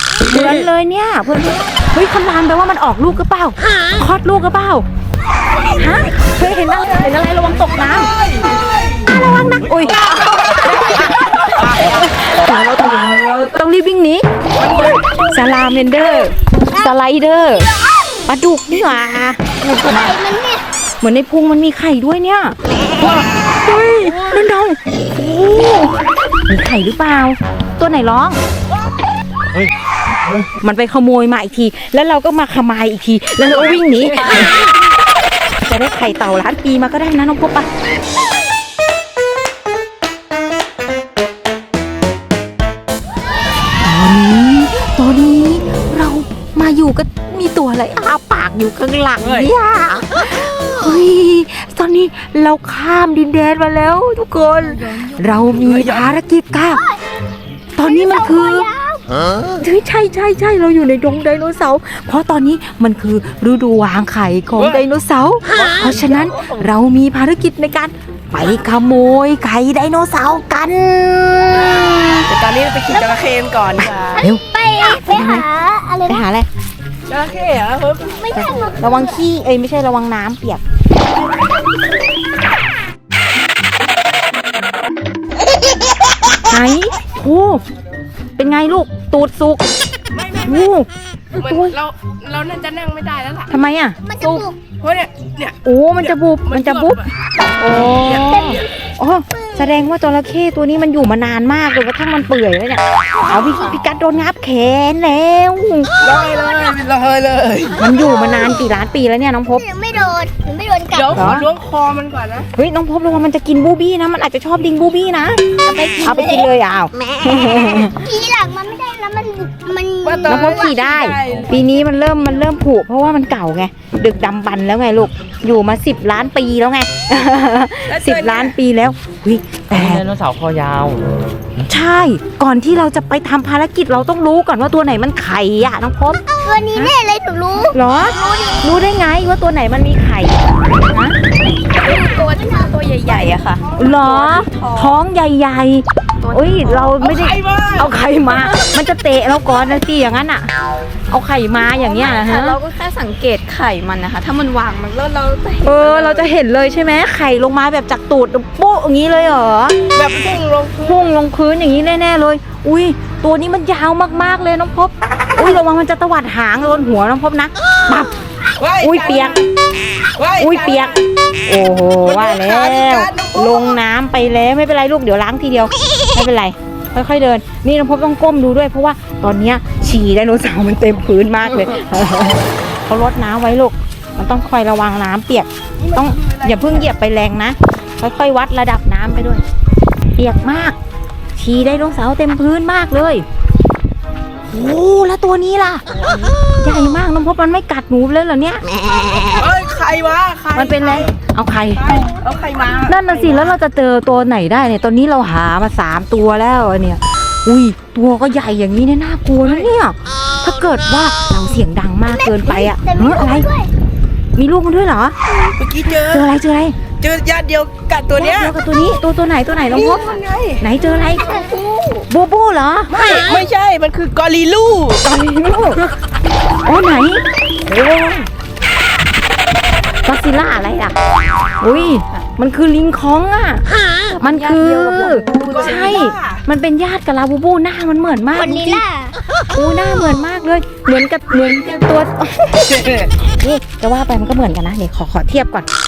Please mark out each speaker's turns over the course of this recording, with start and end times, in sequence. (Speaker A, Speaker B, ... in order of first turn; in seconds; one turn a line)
Speaker A: 0.2-4.9
Speaker A: 5.7-8.1
Speaker B: 7.9-9.2
Speaker A: 9.6-14.2
Speaker C: 9.6-10.1
Speaker B: 14.6-15.0
Speaker A: 15.3-17.7
Speaker D: 16.7-17.0
Speaker A: 18.3-19.4
Speaker E: 19.7-20.1
Speaker D: 19.8-20.6
Speaker A: 21.0-28.4
Speaker A: 30.6-34.5
Speaker E: 33.9-34.5
Speaker A: 35.6-37.7
Speaker A: 43.8-56.8
Speaker C: 49.2-49.5
Speaker C: 55.3-56.1
Speaker D: 56.7-57.0
Speaker A: 57.8-58.7
Speaker D: 57.8-59.1
Speaker A: 59.6-72.3
Speaker B: 64.6-64.8
Speaker B: 65.5-66.7
Speaker B: 72.3-74.2
Speaker D: 74.1-76.2
Speaker A: 74.2-74.4
Speaker A: 75.1-75.5
Speaker A: 76.1-76.5
Speaker B: 77.1-78.5
Speaker D: 78.2-79.3
Speaker A: 78.3-80.6
Speaker A: 86.5-87.6
Speaker A: 88.4-89.6
Speaker B: 90.1-90.8
Speaker A: 90.5-90.9
Speaker B: 91.3-93.5
Speaker A: 91.4-91.8
Speaker A: 93.5-94.0
Speaker D: 94.0-94.6
Speaker E: 94.2-94.5
Speaker B: 94.8-98.7
Speaker A: 95.6-97.0
Speaker A: 97.6-105.9
Speaker D: 98.2-98.6
Speaker E: 103.3-103.8
Speaker D: 106.0-106.8
Speaker B: 106.0-107.8
Speaker D: 107.8-108.9
Speaker A: 107.8-109.6
Speaker D: 109.5-111.3
Speaker B: 110.9-112.5
Speaker A: 111.2-111.5
Speaker A: 112.6-115.4
Speaker E: 115.7-116.5
Speaker A: 116.0-118.0
Speaker D: 117.4-120.6
Speaker B: 120.0-121.5
Speaker A: 120.3-130.0
Speaker B: 127.9-128.6
Speaker C: 129.7-131.0
Speaker C: 131.6-131.8
Speaker A: 131.7-136.2
Speaker D: 136.4-138.7
Speaker A: 137.7-140.4
Speaker A: 140.9-141.2
Speaker E: 141.7-145.0
Speaker B: 143.7-143.9
Speaker A: 143.8-150.5
Speaker E: 146.2-146.9
Speaker B: 146.8-147.9
Speaker E: 148.3-148.7
Speaker A: 151.1-152.6
Speaker E: 151.8-156.3
Speaker A: 155.6-159.8
Speaker B: 159.9-161.1
Speaker A: 160.8-168.1
Speaker B: 168.6-169.5
Speaker A: 168.8-169.4
Speaker B: 170.2-171.1
Speaker A: 170.4-189.4
Speaker B: 172.0-173.8
Speaker B: 185.8-186.9
Speaker A: 190.2-190.8
Speaker A: 191.4-193.2
Speaker A: 194.5-195.8
Speaker B: 195.9-196.3
Speaker A: 196.6-198.6
Speaker B: 199.3-201.1
Speaker A: 200.6-202.1
Speaker B: 201.7-203.6
Speaker A: 202.9-213.5
Speaker B: 209.4-209.7
Speaker D: 212.1-213.7
Speaker A: 214.4-215.2
Speaker B: 215.6-216.3
Speaker A: 216.0-216.8
Speaker B: 217.0-218.6
Speaker A: 218.2-221.4
Speaker B: 219.7-220.7
Speaker E: 221.2-222.1
Speaker A: 222.1-222.9
Speaker B: 222.9-225.0
Speaker A: 225.0-225.9
Speaker A: 226.7-228.3
Speaker A: 230.1-230.9
Speaker A: 231.6-233.6
Speaker E: 234.1-236.0
Speaker A: 234.2-238.8
Speaker B: 235.4-236.4
Speaker D: 238.4-239.2
Speaker A: 239.5-245.7
Speaker B: 242.8-243.1